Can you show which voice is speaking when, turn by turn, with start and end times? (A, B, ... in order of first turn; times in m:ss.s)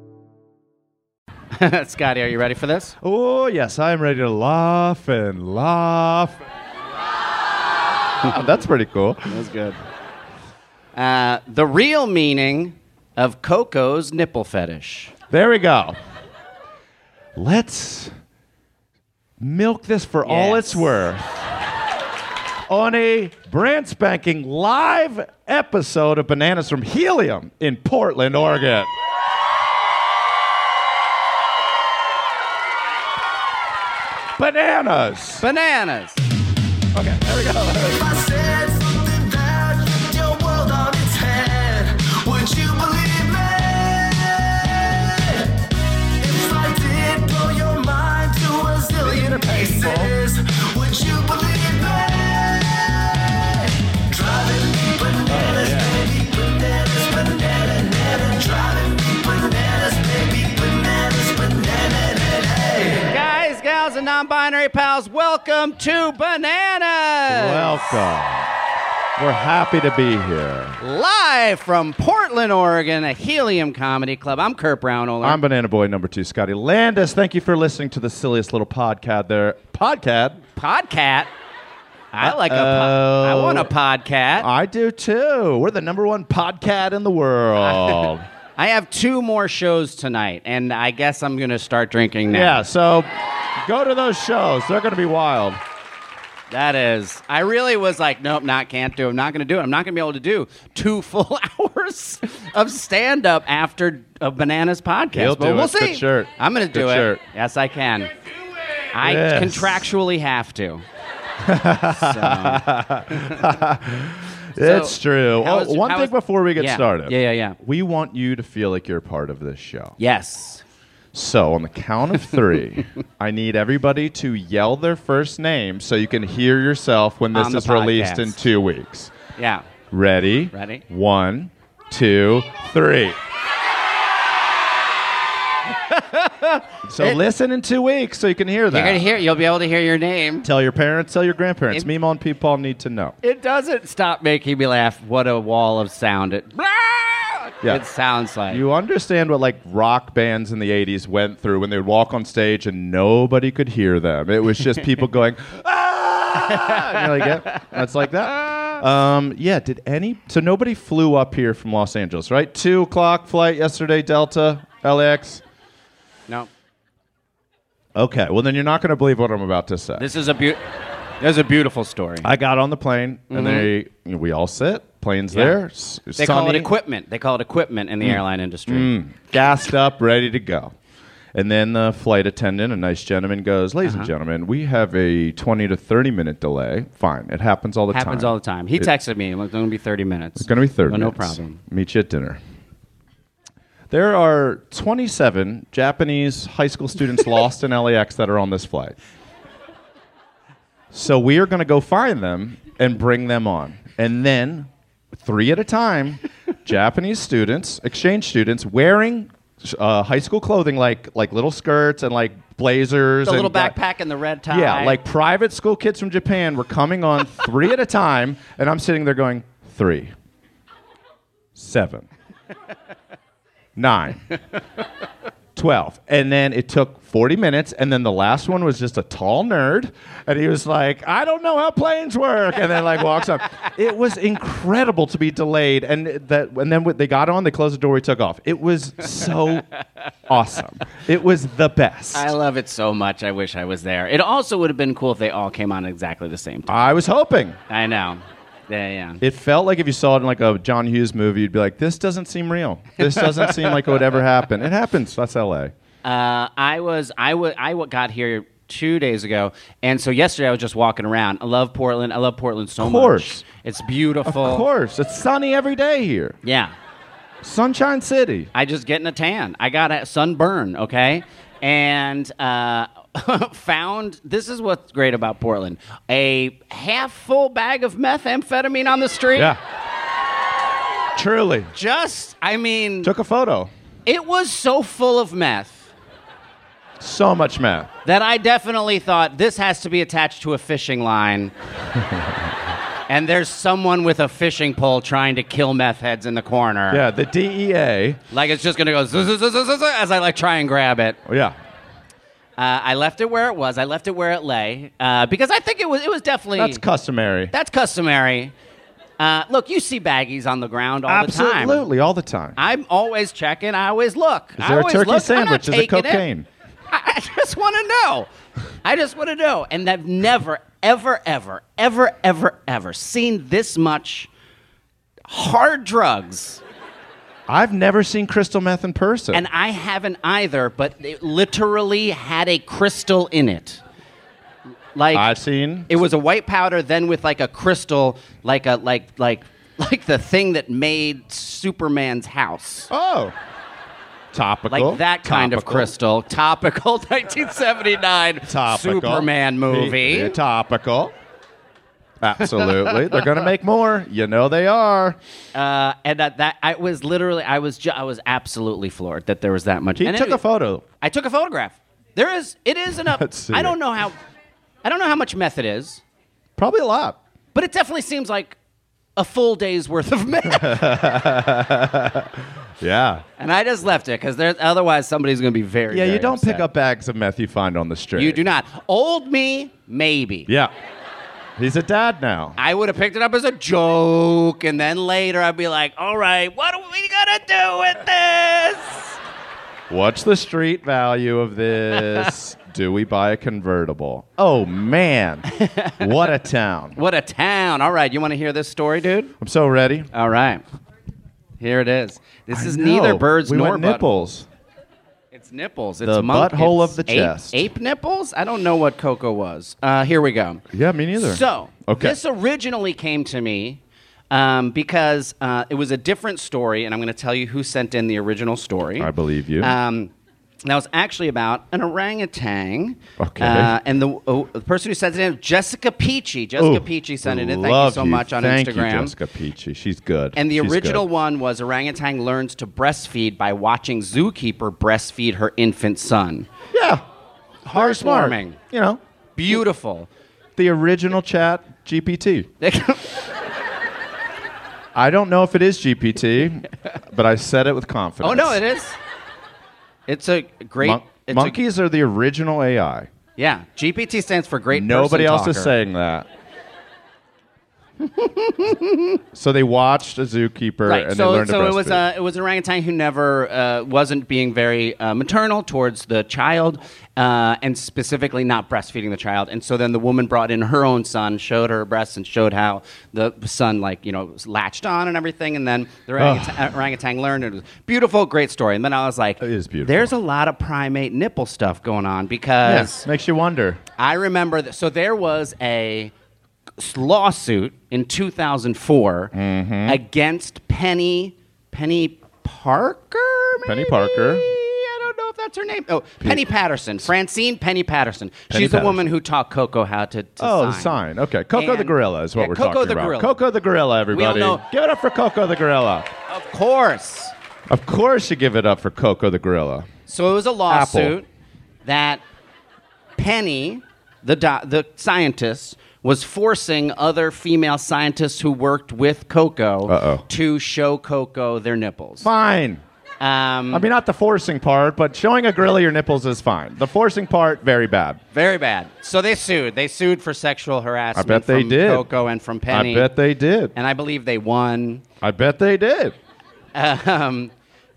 0:01.5-0:03.0 A
0:03.0-0:06.4 B
0:08.2-0:09.4 B
0:09.3-0:09.8 A
0:11.0-0:15.1 A
0:15.3-0:16.0 B
0:17.4-0:18.1 B
0:19.4-0:21.3 B
0:20.2-0:21.0 A
0:22.7-0:28.9 B
0:34.4-0:35.4 B
0:35.4-0:36.2 A
0:36.9-0:38.1 B
0:37.8-0:45.6 C
0:46.2-1:03.1 C
0:49.0-0:50.1 B
0:55.3-0:56.0 B
1:03.1-1:08.1 A
1:07.3-1:08.5 B
1:09.2-1:10.8 B
1:10.8-1:15.4 A
1:15.2-1:20.4 B
1:20.6-1:21.3 A
1:22.1-1:24.5 A
1:22.2-1:23.7 B
1:24.4-1:28.3 B
1:27.6-1:32.6 A
1:32.3-1:33.1 B
1:33.6-1:35.6 B
1:36.5-1:48.1 A
1:45.1-1:47.2 B
1:48.9-1:50.8 A
1:49.0-1:49.9 B
1:51.4-2:00.0 B
1:51.9-1:53.5 A
1:54.6-1:57.6 A
2:00.0-2:00.6 A
2:01.1-2:09.1 B
2:07.3-2:08.4 A
2:09.4-2:09.7 A
2:09.9-2:13.2 B
2:10.5-2:10.8 A
2:15.7-2:17.2 A
2:16.8-2:19.0 B
2:18.7-2:20.5 A
2:20.4-2:23.2 B
2:23.2-2:28.6 A
2:28.5-2:45.4 B
2:36.4-2:37.6 A
2:48.0-2:50.0 B
2:50.0-2:50.6 A
2:51.2-2:52.3 A
2:52.2-2:56.7 B
2:53.3-2:53.7 A
2:55.3-2:55.6 A
2:56.2-2:58.9 A
2:58.0-3:00.7 B
3:01.4-3:08.9 B
3:03.8-3:04.1 A
3:07.9-3:11.6 A
3:10.4-3:12.4 B
3:13.9-3:19.0 B
3:20.9-3:33.8 B
3:33.2-3:35.0 A
3:34.5-3:40.1 B
3:41.6-3:42.1 B
3:43.8-3:44.3 B
3:45.6-3:59.6 B
4:00.3-4:02.3 B
4:02.1-4:07.0 A
4:06.7-4:07.6 B
4:07.7-4:09.2 A
4:09.2-4:15.7 B
4:13.0-4:14.0 A
4:16.0-4:24.7 A
4:22.8-4:23.4 B
4:24.3-4:26.4 B
4:26.4-4:26.7 A
4:27.4-4:28.5 B
4:28.5-4:39.5 A
4:41.2-4:41.7 B
4:41.7-4:43.1 A
4:43.0-4:43.7 B
4:44.1-4:45.9 A
4:47.0-4:47.9 B
4:48.0-4:51.5 A
4:53.1-4:57.0 A
4:56.9-4:58.2 B
4:58.3-5:01.2 A
5:01.3-5:01.6 B
5:02.6-5:06.8 A
5:06.6-5:07.5 B
5:07.5-5:08.5 A
5:09.2-5:11.9 A
5:11.1-5:12.6 B
5:12.6-5:16.2 A
5:14.6-5:16.5 B
5:16.9-5:18.3 A
5:18.8-5:24.3 A
5:25.3-5:26.6 A
5:27.5-5:29.4 B
5:29.3-5:33.8 A
5:35.0-5:42.9 A
5:35.1-5:35.9 B
5:42.9-5:43.4 B
5:44.3-5:45.9 B
5:44.7-5:50.4 A
5:48.5-5:51.1 B
5:52.2-5:55.2 B
5:52.5-5:53.2 A
5:55.5-6:00.4 A
6:00.0-6:00.8 B
6:01.0-6:04.2 A
6:03.1-6:03.8 B
6:04.8-6:06.0 A
6:06.6-6:07.2 B
6:07.5-6:08.6 A
6:09.2-6:11.0 A
6:10.4-6:13.2 B
6:13.4-6:16.7 A
6:15.9-6:18.4 B
6:18.2-6:20.5 A
6:21.6-6:22.6 B
6:22.6-6:29.2 A
6:29.9-6:35.5 B
6:31.9-6:32.3 A
6:35.5-6:36.0 A
6:36.0-6:37.0 B
6:37.0-6:39.3 A
6:39.4-6:40.1 B
6:40.1-6:40.6 A
6:41.6-6:44.3 A
6:42.5-6:44.5 B
6:45.3-6:50.6 A
6:46.0-6:47.7 B
6:50.7-6:52.2 B
6:51.2-7:00.1 A
6:59.0-6:59.8 B
7:00.6-7:09.2 A
7:03.2-7:03.7 B
7:06.6-7:11.0 B
7:10.4-7:16.5 A
7:16.7-7:17.0 B
7:17.6-7:18.6 A
7:17.7-7:19.6 B
7:19.4-7:20.1 A
7:20.6-7:22.5 B
7:22.6-7:23.1 A
7:25.0-7:28.6 B
7:28.2-7:29.0 A
7:30.1-7:31.6 A
7:30.8-7:33.1 B
7:33.4-7:35.7 A
7:34.7-7:36.3 B
7:38.0-7:39.2 A
7:39.3-7:42.0 B
7:40.9-8:03.1 A
7:56.2-7:56.8 B
7:59.4-8:00.1 B
8:02.6-8:03.8 B
8:04.0-8:06.1 A
8:06.8-8:09.3 A
8:09.3-8:10.0 B
8:09.8-8:21.0 A
8:13.7-8:14.4 B
8:18.5-8:19.1 B
8:20.4-8:26.1 B
8:21.5-8:23.4 A
8:24.1-8:24.6 A
8:26.3-8:27.3 A
8:27.7-8:29.9 B
8:30.1-8:31.3 A
8:30.7-8:31.2 B
8:31.8-8:32.2 A
8:33.2-8:42.3 A
8:39.9-8:40.2 B
8:42.2-8:42.8 B
8:43.2-8:43.8 A
8:43.7-8:48.2 B
8:48.3-8:53.2 A
8:51.2-8:52.1 B
8:52.7-8:53.7 B
8:53.8-8:55.0 A
8:55.2-8:56.2 B
8:56.8-8:57.5 A